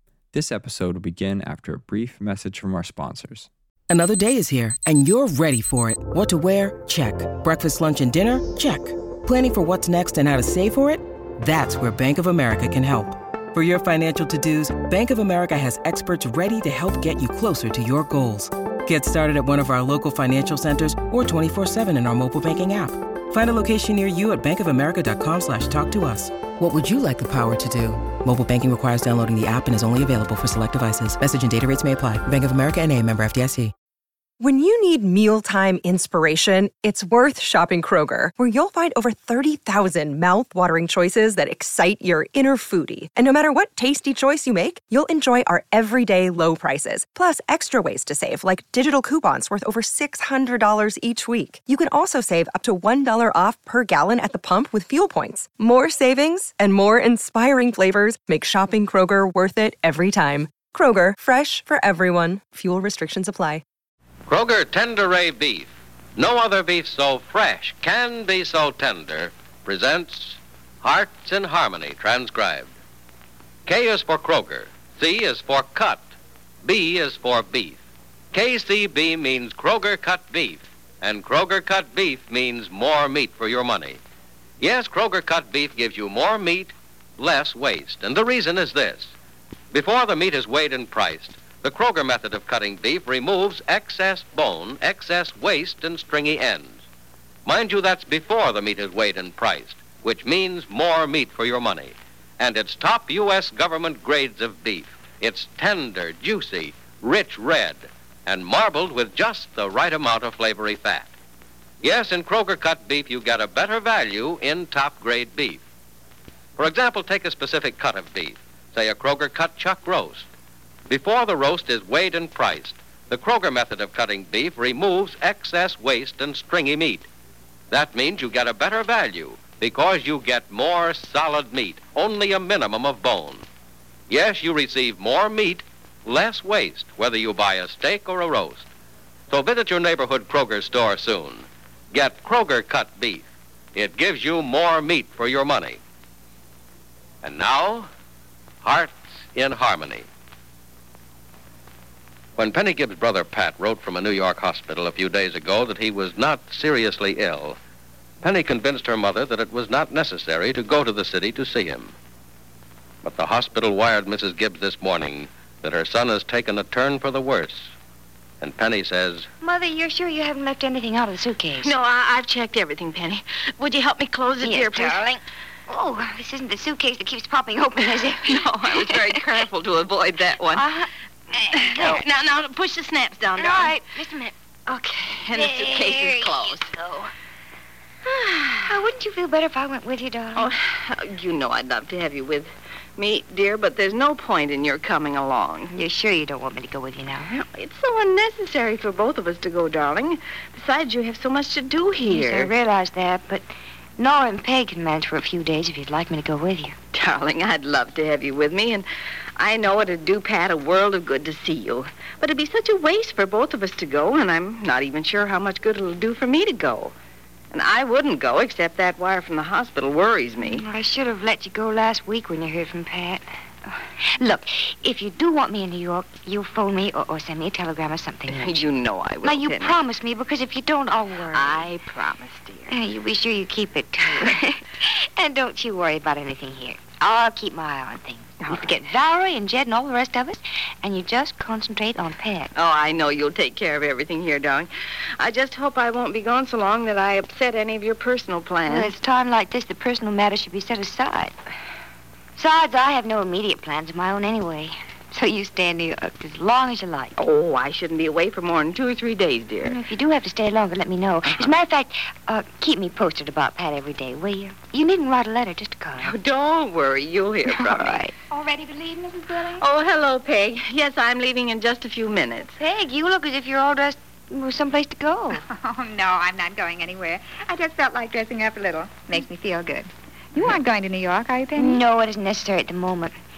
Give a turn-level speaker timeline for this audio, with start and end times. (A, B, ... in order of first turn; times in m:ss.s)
0:00.3-0:03.5 A
0:03.9-0:33.7 B
0:34.4-1:03.6 C
1:04.3-1:12.7 D
1:13.6-1:16.1 D
1:16.6-1:17.8 D
1:18.3-1:24.0 D
1:24.6-1:29.1 D
1:29.7-1:36.8 D
1:37.4-1:51.1 D
1:51.8-1:55.6 D
1:56.6-2:00.3 D
2:00.9-2:07.1 D
2:07.7-2:13.4 D
2:14.1-2:18.7 D
2:19.3-2:25.8 D
2:27.2-2:27.9 D
2:28.6-2:30.1 D
2:32.4-2:37.6 D
2:38.2-2:41.9 D
2:43.0-2:47.7 D
2:48.4-2:49.3 D
2:49.4-2:51.7 E
2:51.6-2:55.0 F
2:54.4-2:59.2 E
2:58.2-3:00.6 F
3:00.5-3:02.0 E
3:01.5-3:03.7 F
3:03.4-3:07.1 E
3:05.0-3:06.8 F
3:08.0-3:08.8 F
3:08.7-3:10.5 E
3:10.3-3:15.7 F
3:15.7-3:17.3 E
3:17.3-3:22.5 F
3:22.0-3:23.4 E
3:24.0-3:26.8 E
3:26.9-3:36.9 F
3:37.5-3:40.6 F
3:40.4-3:43.2 E
3:44.2-3:48.7 E
3:48.3-3:49.8 F
3:49.2-3:51.7 E
3:51.3-3:52.8 F
3:52.7-4:02.5 E
3:58.4-3:58.7 F
4:02.5-4:08.9 F
4:08.6-4:11.3 E
4:12.4-4:17.1 E
4:17.2-4:19.8 F
4:19.6-4:26.1 E
4:26.0-4:28.0 F
4:27.5-4:28.1 E
4:28.3-4:29.6 G
4:29.6-4:32.5 F
4:32.6-4:35.4 E
4:35.4-4:41.8 G
4:41.6-4:43.1 E